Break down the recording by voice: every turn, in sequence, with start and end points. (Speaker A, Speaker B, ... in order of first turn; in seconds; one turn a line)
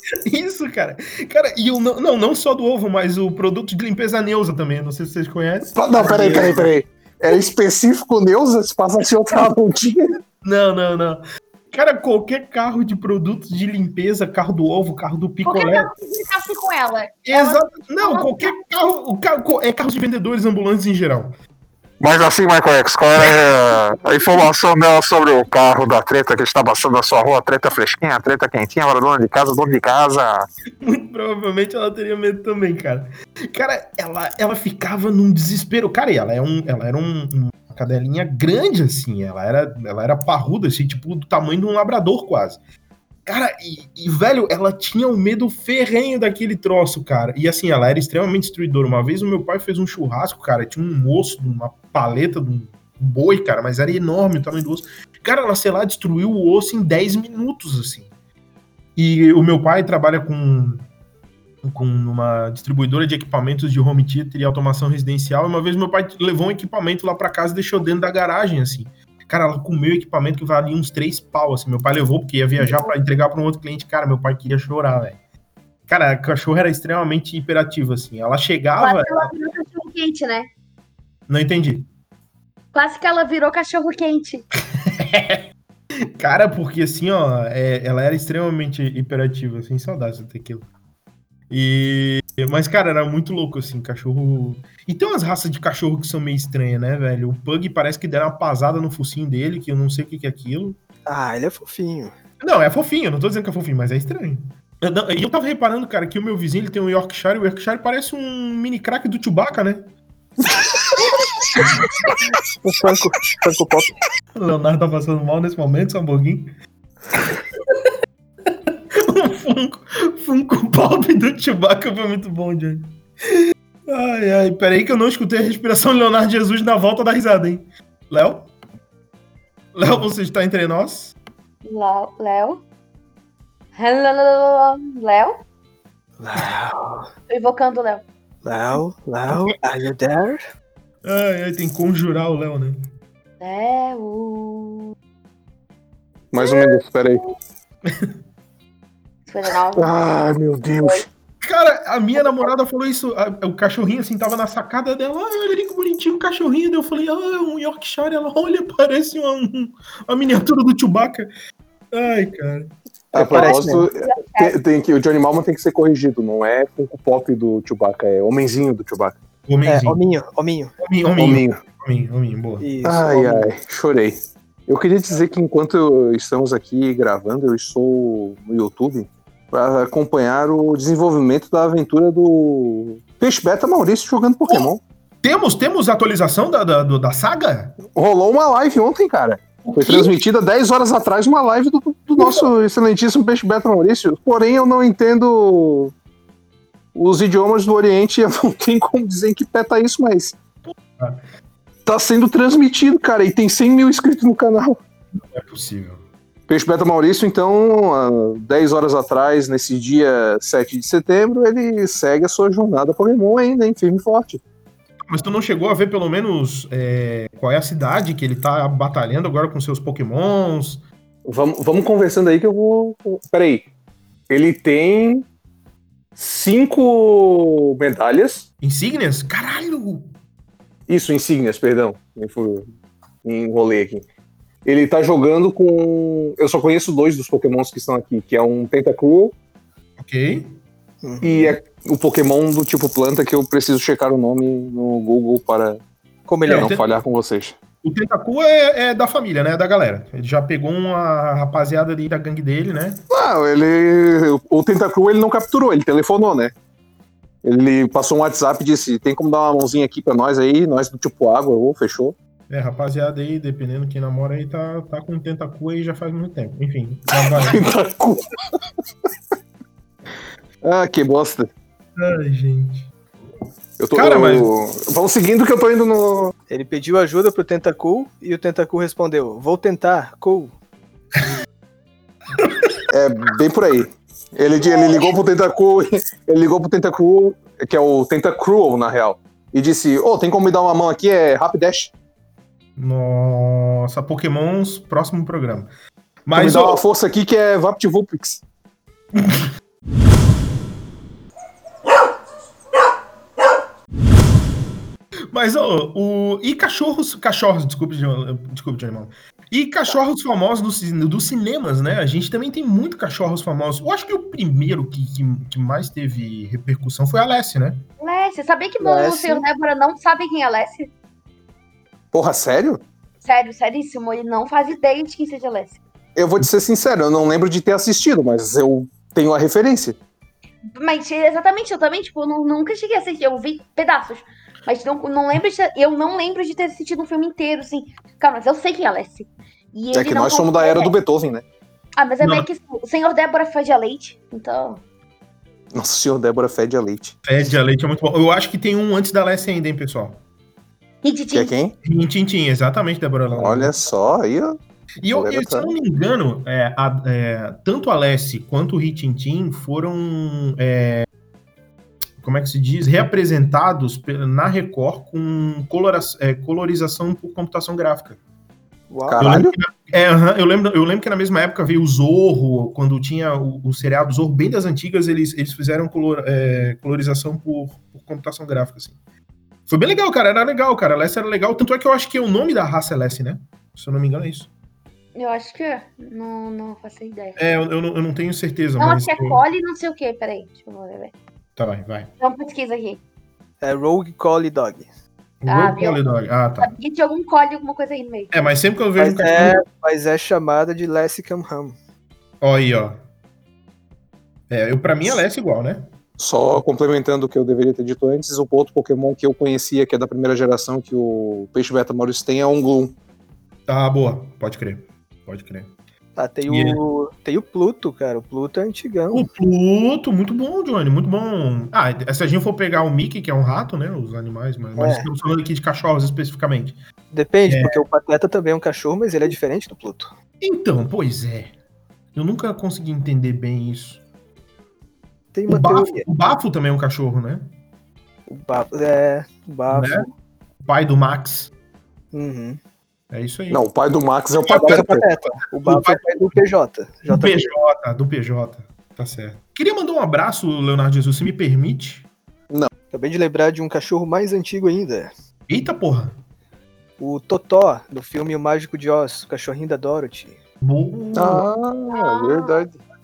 Speaker A: 0.2-6.7
Speaker B: 5.7-10.1
Speaker C: 6.1-6.5
Speaker A: 10.4-15.9
Speaker D: 15.4-18.6
Speaker A: 17.2-21.3
Speaker E: 22.0-30.5
Speaker A: 30.8-42.6
Speaker A: 43.2-58.1
Speaker A: 59.0-60.9
Speaker A: 61.6-75.2
Speaker D: 72.6-72.9
Speaker A: 75.9-79.3
Speaker D: 78.8-80.5
Speaker A: 81.3-81.9
Speaker D: 82.7-84.5
Speaker A: 84.8-85.4
Speaker A: 86.2-90.7
Speaker A: 91.5-100.8
Speaker C: 101.0-102.1
Speaker A: 102.4-109.9
Speaker C: 112.6-113.9
Speaker A: 114.3-116.5
Speaker A: 118.9-128.5
Speaker A: 129.7-131.2
Speaker D: 131.6-132.6
Speaker D: 133.7-135.4
Speaker C: 136.2-137.1
Speaker D: 137.3-138.0
Speaker C: 138.4-140.4
Speaker A: 141.0-142.8
Speaker D: 143.4-144.9
Speaker B: 146.3-147.2
Speaker D: 146.4-146.8
Speaker A: 147.9-148.1
Speaker D: 149.3-149.9
Speaker B: 149.7-151.0
Speaker A: 151.4-161.3
Speaker D: 152.2-152.5
Speaker A: 161.9-162.7
Speaker B: 163.1-169.2
Speaker C: 163.1-163.9
Speaker D: 163.3-164.6
Speaker A: 169.5-170.0
Speaker C: 169.7-170.7
Speaker A: 170.8-172.7
Speaker B: 171.2-171.6
Speaker C: 172.6-173.5
Speaker B: 172.8-184.8
Speaker A: 185.2-187.8
Speaker B: 187.9-195.9
Speaker A: 189.6-190.1
Speaker A: 192.2-192.5
Speaker B: 196.9-200.4
Speaker A: 200.7-201.2
Speaker B: 201.8-204.8
Speaker A: 205.1-206.0
Speaker B: 206.5-214.4
Speaker A: 215.1-220.8
Speaker B: 221.2-223.7
Speaker B: 224.3-225.3
Speaker B: 226.2-228.5
Speaker A: 228.6-230.1
Speaker B: 230.9-232.7
Speaker B: 233.2-234.1
Speaker B: 234.6-239.3
Speaker A: 240.0-240.6
Speaker C: 241.0-241.5
Speaker B: 241.2-245.8
Speaker C: 246.3-246.8
Speaker B: 246.4-247.6
Speaker A: 246.4-246.8
Speaker A: 247.8-253.0
Speaker B: 253.1-256.5
Speaker B: 257.4-262.1
Speaker A: 262.5-267.6
Speaker B: 267.1-268.2
Speaker B: 270.6-271.5
Speaker A: 272.0-272.9
Speaker B: 273.8-276.3
Speaker A: 273.9-274.5
Speaker C: 276.5-280.5
Speaker A: 282.4-282.7
Speaker B: 282.9-291.9
Speaker A: 292.8-295.7
Speaker A: 296.2-296.8
Speaker B: 296.3-298.4
Speaker A: 299.1-299.4
Speaker A: 305.3-317.8
Speaker D: 318.0-320.9
Speaker C: 318.8-319.4
Speaker B: 322.1-322.8
Speaker D: 323.2-325.8
Speaker B: 326.1-330.0
Speaker D: 330.8-340.9
Speaker B: 339.9-341.4
Speaker D: 342.0-344.8
Speaker A: 342.2-342.4
Speaker B: 345.7-347.1
Speaker A: 347.2-350.2
Speaker D: 351.0-351.5
Speaker B: 351.3-351.8
Speaker A: 351.8-353.8
Speaker B: 353.3-354.6
Speaker A: 355.0-361.1
Speaker B: 355.1-355.7
Speaker A: 362.2-368.2
Speaker C: 368.9-369.3
Speaker B: 369.0-369.5
Speaker A: 369.2-378.9
Speaker A: 379.7-384.5
Speaker D: 385.1-387.4
Speaker A: 387.4-389.4
Speaker D: 388.8-391.1
Speaker A: 391.6-392.1
Speaker D: 392.2-393.0
Speaker C: 393.6-394.9
Speaker A: 395.4-396.7
Speaker D: 395.5-396.0
Speaker D: 396.6-398.4
Speaker A: 398.3-399.6
Speaker C: 399.0-401.7
Speaker A: 402.4-403.0
Speaker A: 404.5-405.9
Speaker B: 406.2-412.9
Speaker A: 413.7-415.7
Speaker C: 416.1-419.2
Speaker A: 416.5-416.8
Speaker A: 419.1-426.8
Speaker C: 424.8-425.1
Speaker C: 427.1-430.1
Speaker A: 427.5-427.8
Speaker A: 430.4-431.5
Speaker A: 432.1-434.0
Speaker C: 435.3-436.1
Speaker A: 435.5-437.5
Speaker C: 438.3-440.1
Speaker A: 439.7-440.1
Speaker A: 440.6-441.5
Speaker C: 442.1-442.6
Speaker A: 443.1-443.6
Speaker B: 443.5-445.1
Speaker A: 444.5-444.8
Speaker C: 444.5-447.5
Speaker A: 445.6-446.4
Speaker A: 447.1-452.1
Speaker C: 452.9-455.1
Speaker A: 455.5-456.2
Speaker C: 457.0-460.4
Speaker A: 460.6-461.5
Speaker B: 461.1-462.8
Speaker D: 461.9-462.6